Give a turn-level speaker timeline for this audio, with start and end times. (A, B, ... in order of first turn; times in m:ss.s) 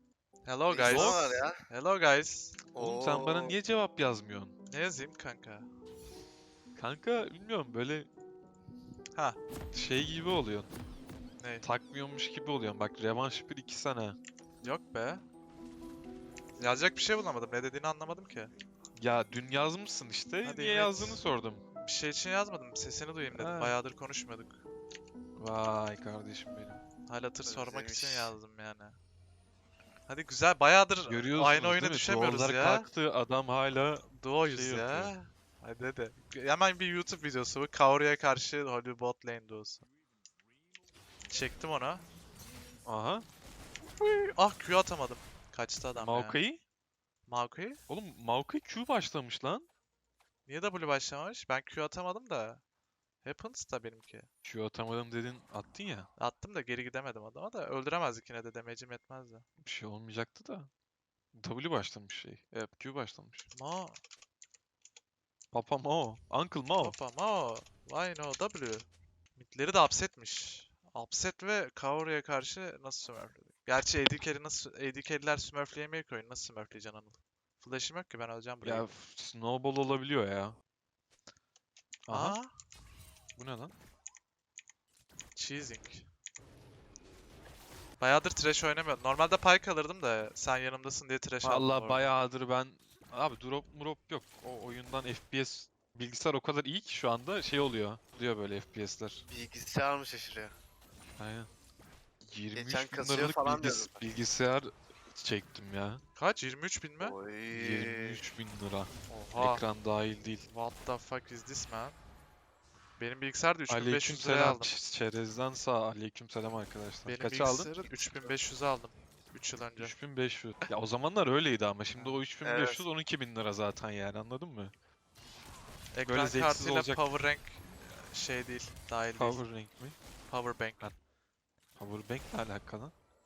0:00.4-0:02.6 A
0:00.7-0:01.6 B
0:00.8-0:01.3 C
0:02.7-0:03.6 B
0:02.8-0:04.5 C
0:04.7-0:05.7 A
0:06.8-0:08.1 C
0:09.7-0:10.7 C
0:11.4-0:11.6 A
0:11.6-0:14.2 C
0:14.6-0:15.2 A
0:16.6-0:18.5 A
0:19.0-0:21.6 C
0:20.4-0:21.2 A
0:21.8-0:24.6 A
0:23.3-0:23.8 C
0:25.4-0:26.8 C
0:27.1-0:29.0 A
0:27.4-0:28.4 B
0:30.1-0:32.9 A
0:31.1-0:35.1 C
0:34.1-0:39.8 A
0:41.3-0:42.0 A
0:42.9-0:43.3 C
0:44.0-0:46.4 A
0:46.0-0:46.6 C
0:47.3-0:47.8 A
0:47.9-0:49.7 C
0:50.5-0:52.6 A
0:53.2-0:54.3 A
0:54.4-0:56.1 C
0:56.2-0:59.4 A
0:59.6-1:00.7 C
1:01.4-1:03.5 C
1:03.5-1:04.0 A
1:05.5-1:07.0 C
1:06.8-1:18.9 A
1:18.6-1:20.6 C
1:22.1-1:22.4 C
1:22.1-1:22.5 A
1:23.4-1:23.7 C
1:25.4-1:26.1 A
1:28.0-1:32.1 A
1:31.4-1:39.2 C
1:39.3-1:40.5 B
1:41.2-1:41.5 C
1:42.2-1:46.0 C
1:42.5-1:44.2 B
1:46.2-1:47.2 A
1:47.0-1:48.2 B
1:47.5-1:50.4 C
1:49.1-1:49.6 A
1:50.5-1:52.0 A
1:53.0-1:54.8 A
1:53.7-1:57.7 C
1:57.0-2:00.0 A
1:59.8-2:04.7 C
2:01.9-2:02.2 A
2:02.4-2:02.9 B
2:05.9-2:09.4 A
2:06.0-2:07.0 C
2:09.2-2:10.0 C
2:10.3-2:10.9 A
2:11.8-2:12.9 C